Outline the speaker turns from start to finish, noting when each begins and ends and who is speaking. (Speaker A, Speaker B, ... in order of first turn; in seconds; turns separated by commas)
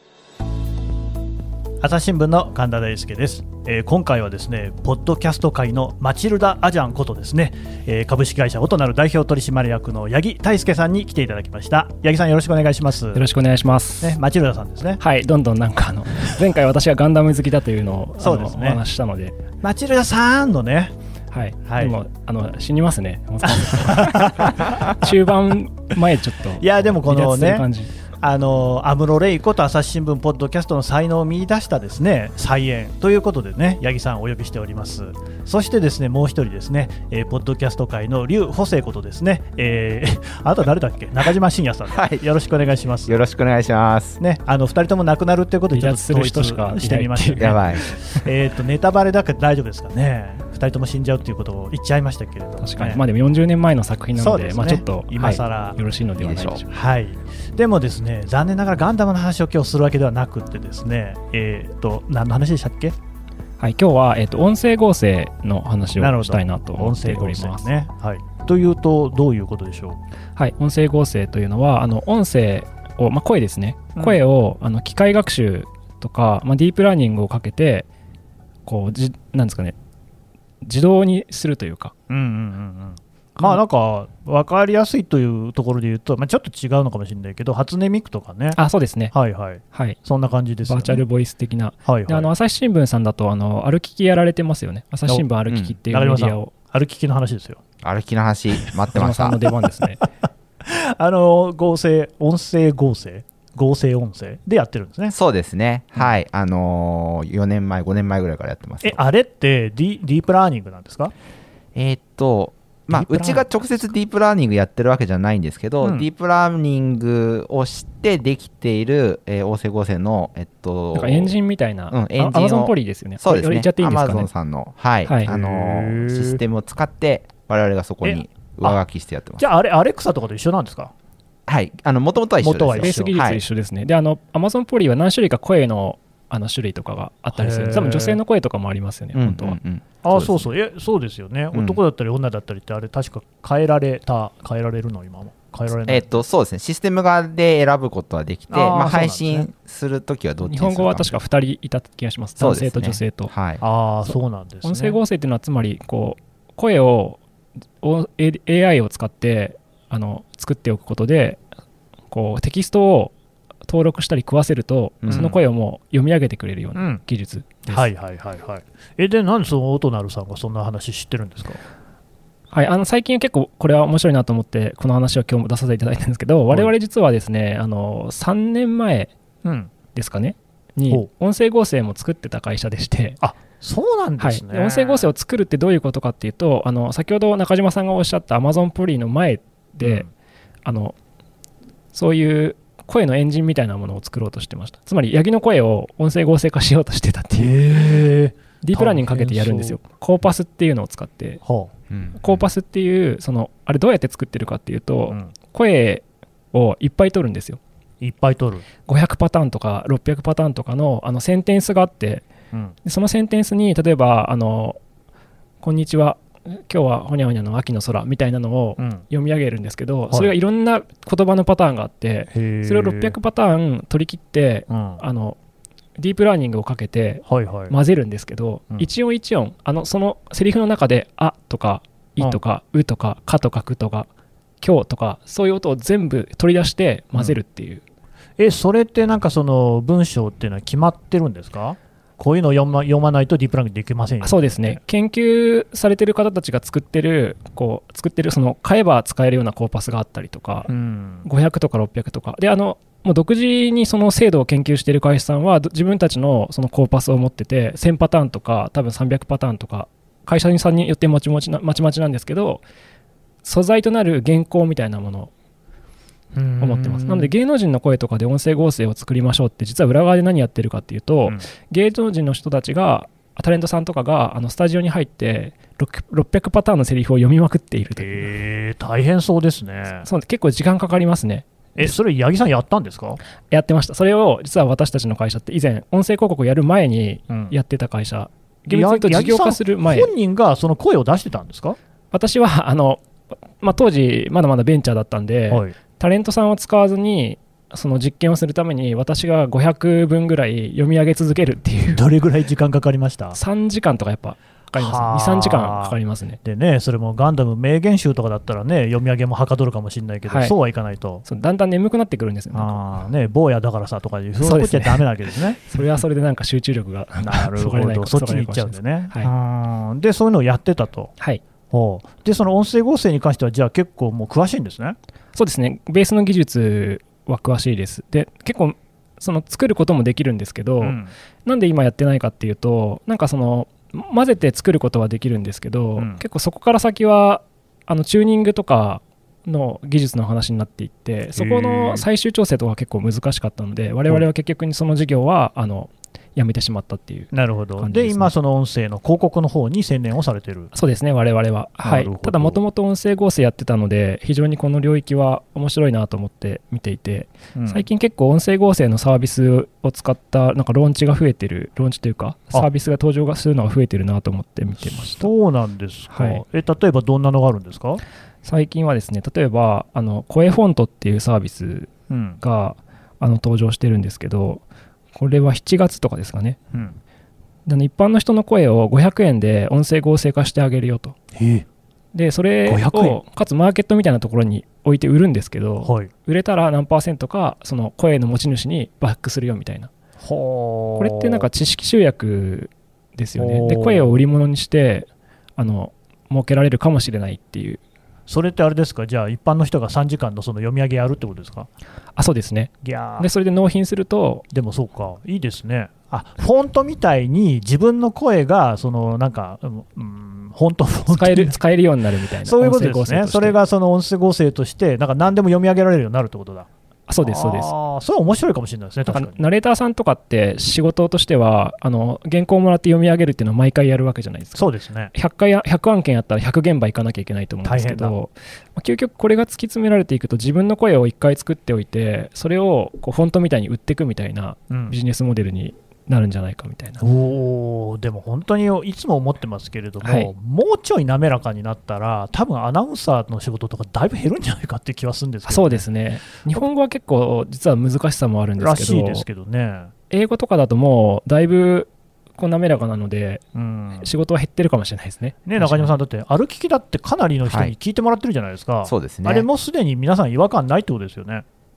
Speaker A: 1.8-13.2, Speaker B: 13.1-14.2, Speaker A: 14.0-15.0, Speaker B: 15.0-19.4, Speaker A: 18.2-18.8, Speaker A: 19.6-20.9, Speaker B: 21.3-27.9, Speaker A: 21.6-22.0, Speaker A: 23.4-24.9, Speaker A: 26.6-27.7, Speaker A: 28.2-43.2, Speaker C: 41.9-42.2, Speaker C: 43.0-44.2, Speaker A: 44.2-53.0, Speaker B: 45.7-47.6, Speaker C: 47.4-47.8, Speaker B: 52.6-56.7, Speaker A: 54.1-55.8, Speaker C: 56.2-56.6, Speaker A: 56.7-63.0, Speaker B: 63.6-67.7, Speaker A: 66.0-70.0, Speaker B: 70.3-77.9, Speaker A: 74.0-74.2, Speaker B: 78.7-79.7, Speaker B: 80.6-81.9, Speaker A: 82.1-88.6, Speaker B: 88.5-89.1, Speaker A: 89.1-91.0, Speaker B: 89.7-90.0, Speaker B: 90.6-96.5, Speaker A: 91.8-92.3, Speaker C: 95.5-95.8, Speaker A: 95.9-97.6, Speaker C: 97.8-99.4, Speaker B: 98.9-100.0, Speaker A: 100.6-105.1, Speaker C: 105.1-109.0, Speaker A: 108.8-111.1, Speaker C: 111.7-121.3, Speaker A: 112.9-113.9, Speaker A: 115.8-116.1, Speaker B: 120.9-124.3, Speaker C: 121.9-129.4, Speaker B: 125.0-125.3, Speaker A: 125.2-126.4, Speaker A: 128.0-128.8, Speaker A: 129.4-130.9, Speaker C: 131.5-133.4, Speaker A: 132.4-133.1, Speaker B: 132.8-139.6, Speaker A: 137.3-138.2, Speaker C: 139.1-140.5, Speaker A: 140.0-146.2, Speaker C: 141.5-141.8, Speaker C: 145.8-151.1, Speaker A: 148.5-149.5, Speaker B: 150.4-153.3, Speaker C: 152.4-153.6, Speaker A: 153.6-155.0, Speaker B: 154.6-157.2, Speaker B: 157.8-161.4, Speaker B: 162.1-163.1, Speaker B: 163.7-167.9, Speaker C: 165.0-165.3, Speaker A: 165.1-165.4, Speaker A: 166.8-167.0, Speaker A: 167.7-171.6, Speaker B: 172.5-179.1, Speaker A: 179.4-179.7, Speaker B: 179.9-183.2, Speaker A: 183.2-185.1, Speaker B: 184.2-190.1, Speaker A: 189.8-190.1, Speaker B: 190.6-190.9, Speaker B: 191.9-198.0, Speaker A: 197.4-199.8, Speaker B: 198.6-201.4, Speaker A: 201.4-201.7, Speaker C: 201.9-202.4, Speaker B: 202.2-207.6, Speaker A: 208.0-208.7, Speaker B: 208.8-212.2, Speaker B: 212.8-214.8, Speaker B: 215.6-225.3, Speaker A: 218.8-219.0, Speaker A: 222.3-223.2, Speaker A: 224.7-225.0, Speaker B: 226.0-234.1, Speaker A: 227.2-227.7, Speaker B: 234.6-237.8, Speaker A: 238.4-244.8, Speaker B: 244.2-250.7, Speaker A: 250.7-251.3, Speaker B: 251.2-262.6, Speaker B: 263.4-265.3, Speaker A: 266.3-267.3, Speaker B: 266.6-278.3, Speaker A: 278.0-280.1, Speaker B: 280.0-281.9, Speaker A: 281.8-283.2, Speaker B: 283.5-290.1, Speaker A: 287.3-287.6, Speaker A: 288.7-291.8, Speaker B: 292.1-293.0, Speaker B: 293.6-302.0, Speaker A: 295.5-295.8, Speaker A: 301.9-303.4, Speaker B: 303.3-306.4, Speaker A: 304.8-311.2, Speaker B: 310.3-310.5, Speaker B: 311.2-312.8, Speaker A: 312.5-315.8, Speaker B: 314.4-315.1, Speaker B: 315.6-319.3, Speaker A: 317.2-321.1, Speaker A: 321.7-324.9, Speaker B: 325.3-348.3, Speaker A: 330.8-331.1, Speaker A: 336.0-336.2, Speaker A: 341.4-342.1, Speaker A: 347.3-350.7, Speaker B: 350.7-365.3, Speaker A: 351.8-352.6, Speaker A: 357.5-357.9, Speaker A: 364.8-368.0, Speaker B: 366.1-366.4, Speaker B: 368.4-374.6, Speaker A: 372.1-372.4, Speaker B: 375.1-376.6, Speaker A: 376.7-377.0, Speaker B: 377.6-381.2, Speaker A: 381.3-381.6, Speaker B: 382.1-389.9, Speaker A: 382.6-383.2, Speaker A: 385.8-386.1, Speaker A: 390.2-391.5, Speaker B: 391.0-397.8, Speaker A: 393.4-394.2, Speaker A: 398.3-401.7, Speaker B: 402.1-404.4, Speaker A: 402.8-403.3, Speaker A: 404.5-411.6, Speaker B: 411.1-413.6, Speaker A: 412.4-416.7, Speaker B: 417.1-417.7, Speaker A: 417.2-419.4, Speaker B: 419.1-437.0, Speaker A: 424.5-425.1, Speaker A: 427.6-428.1, Speaker A: 434.7-435.0, Speaker A: 437.0-445.8, Speaker B: 440.0-440.3, Speaker B: 445.5-449.2, Speaker A: 448.6-449.9, Speaker B: 450.1-453.4, Speaker A: 453.5-454.1, Speaker B: 454.0-455.9, Speaker A: 455.4-461.4, Speaker C: 457.5-457.7, Speaker C: 458.8-459.5